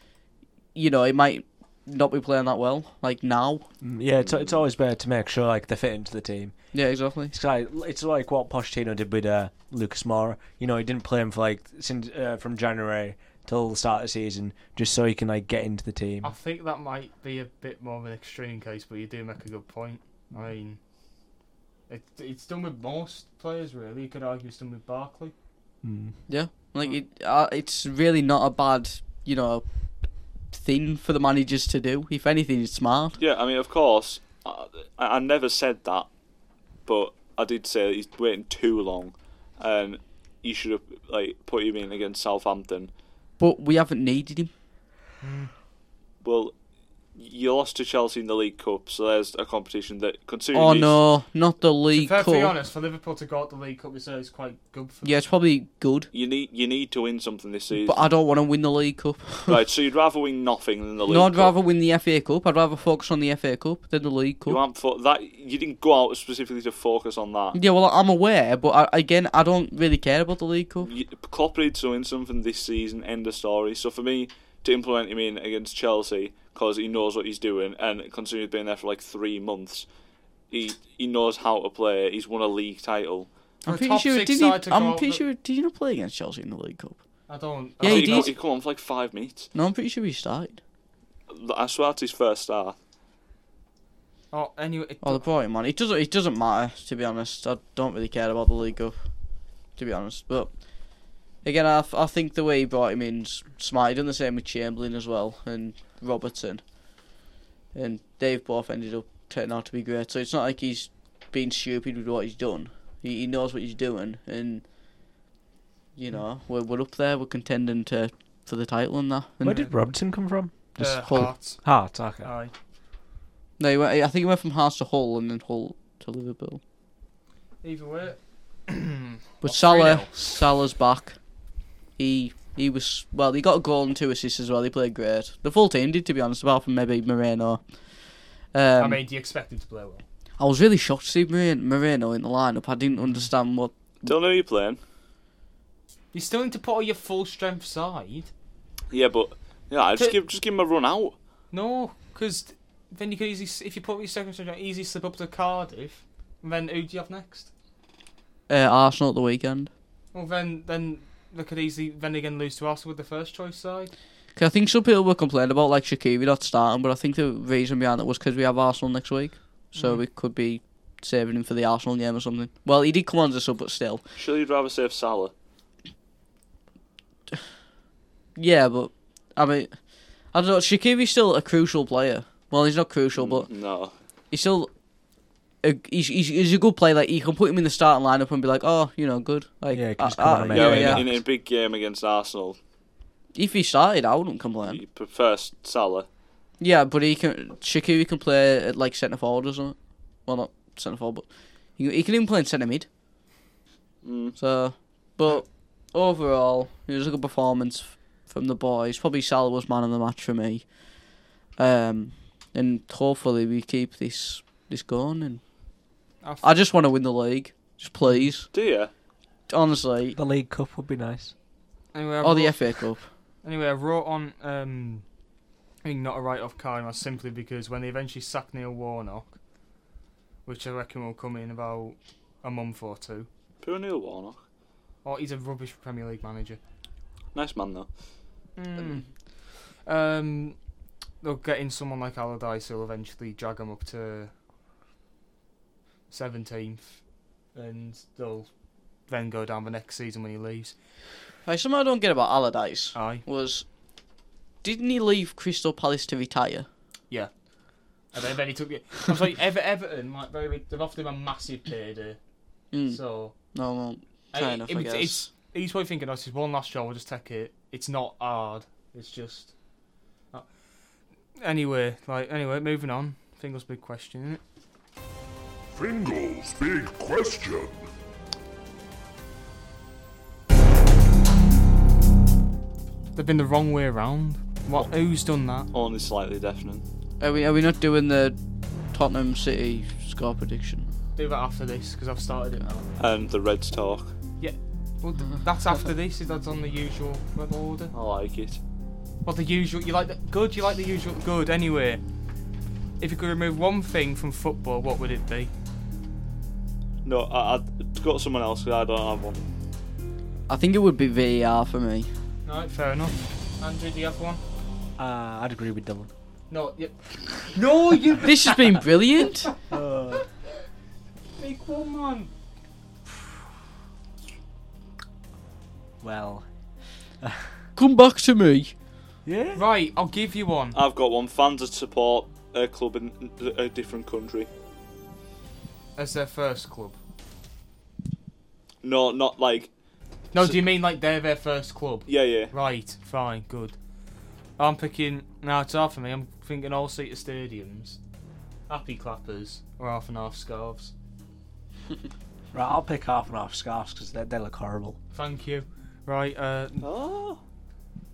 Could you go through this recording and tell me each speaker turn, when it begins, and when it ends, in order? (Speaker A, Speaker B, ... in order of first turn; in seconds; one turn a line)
Speaker A: 0.8-3.7
Speaker B: 3.8-6.5
Speaker C: 4.2-4.6
Speaker A: 6.7-7.3
Speaker B: 7.3-16.4
Speaker D: 16.2-20.8
Speaker D: 21.9-25.3
Speaker B: 25.8-26.2
Speaker A: 26.3-29.6
Speaker A: 30.5-33.2
Speaker C: 33.2-36.1
Speaker C: 36.9-42.9
Speaker A: 43.4-44.5
Speaker D: 45.2-45.5
Speaker C: 46.2-46.5
Speaker C: 47.1-51.0
Speaker A: 50.5-52.5
Speaker D: 51.9-55.1
Speaker A: 55.0-56.1
Speaker C: 56.1-58.0
Speaker A: 57.8-59.6
Speaker C: 59.5-61.5
Speaker A: 61.1-64.6
Speaker C: 64.5-67.6
Speaker A: 67.5-70.9
Speaker C: 70.8-79.9
Speaker C: 80.5-83.3
Speaker A: 83.6-87.0
Speaker D: 83.7-85.2
Speaker D: 87.3-88.3
Speaker A: 87.8-88.3
Speaker C: 87.8-89.5
Speaker A: 89.5-90.6
Speaker C: 91.3-92.8
Speaker D: 94.3-95.2
Speaker A: 95.0-99.0
Speaker A: 99.8-100.5
Speaker A: 101.4-106.6
Speaker A: 107.7-114.6
Speaker A: 116.0-119.7
Speaker B: 119.4-122.3
Speaker D: 119.5-119.7
Speaker D: 120.8-121.6
Speaker D: 122.2-122.5
Speaker A: 123.6-126.6
Speaker D: 127.6-130.4
Speaker A: 129.4-131.2
Speaker A: 132.0-137.6
Speaker A: 138.5-139.0
Speaker D: 138.8-140.0
Speaker A: 140.4-144.1
Speaker D: 143.0-143.2
Speaker C: 144.0-144.8
Speaker D: 146.1-148.3
Speaker C: 148.9-151.2
Speaker D: 151.5-157.5
Speaker A: 158.5-159.7
Speaker D: 160.1-163.9
Speaker A: 164.3-174.0
Speaker D: 169.8-170.0
Speaker C: 174.2-175.3
Speaker A: 178.3-179.8
Speaker A: 180.3-183.5
Speaker C: 183.2-183.9
Speaker A: 184.3-184.7
Speaker A: 185.6-191.1
Speaker B: 189.7-191.2
Speaker C: 190.5-192.6
Speaker A: 193.3-194.8
Speaker C: 194.6-196.1
Speaker A: 196.6-201.2
Speaker A: 201.8-202.9
Speaker C: 204.0-204.3
Speaker A: 204.4-210.7
Speaker A: 211.6-215.4
Speaker D: 216.2-216.6
Speaker A: 216.4-218.5
Speaker D: 218.0-218.3
Speaker C: 218.5-218.9
Speaker A: 219.5-220.2
Speaker B: 220.2-221.3
Speaker D: 221.9-222.7
Speaker A: 222.2-223.1
Speaker D: 223.4-225.0
Speaker D: 225.8-229.3
Speaker D: 230.5-233.3
Speaker C: 233.6-234.4
Speaker D: 235.0-236.6
Speaker C: 237.3-237.9
Speaker D: 238.6-239.1
Speaker D: 239.8-240.6
Speaker D: 241.2-244.3
Speaker D: 246.1-247.0
Speaker D: 247.5-248.5
Speaker D: 249.1-250.8
Speaker A: 251.4-253.7
Speaker D: 252.9-253.2
Speaker A: 254.6-256.7
Speaker D: 258.1-262.2
Speaker A: 262.7-263.0
Speaker D: 262.9-263.3
Speaker A: 263.5-265.3
Speaker D: 264.3-269.5
Speaker D: 271.4-274.4
Speaker E: 275.7-277.8
Speaker D: 283.1-285.7
Speaker C: 285.7-286.8
Speaker A: 287.2-288.4
Speaker A: 288.9-290.9
Speaker D: 291.1-292.9
Speaker C: 293.0-294.1
Speaker D: 294.4-297.9
Speaker C: 297.9-298.6
Speaker D: 299.2-302.0
Speaker D: 303.0-305.5
Speaker C: 307.0-309.5
Speaker A: 310.5-312.1
Speaker D: 312.5-314.4
Speaker B: 315.0-316.1
Speaker D: 316.5-318.8
Speaker A: 318.2-319.5
Speaker B: 319.7-320.2
Speaker D: 321.4-322.3
Speaker B: 326.0-326.5
Speaker B: 327.2-327.5
Speaker A: 327.8-328.7
Speaker B: 329.2-329.6
Speaker D: 329.5-330.8
Speaker C: 330.7-334.5
Speaker D: 336.0-337.0
Speaker C: 338.8-339.7
Speaker D: 340.3-343.8
Speaker C: 342.1-342.5
Speaker D: 344.6-348.0
Speaker D: 348.7-350.9
Speaker B: 352.5-355.0
Speaker D: 355.1-356.9
Speaker C: 356.8-357.4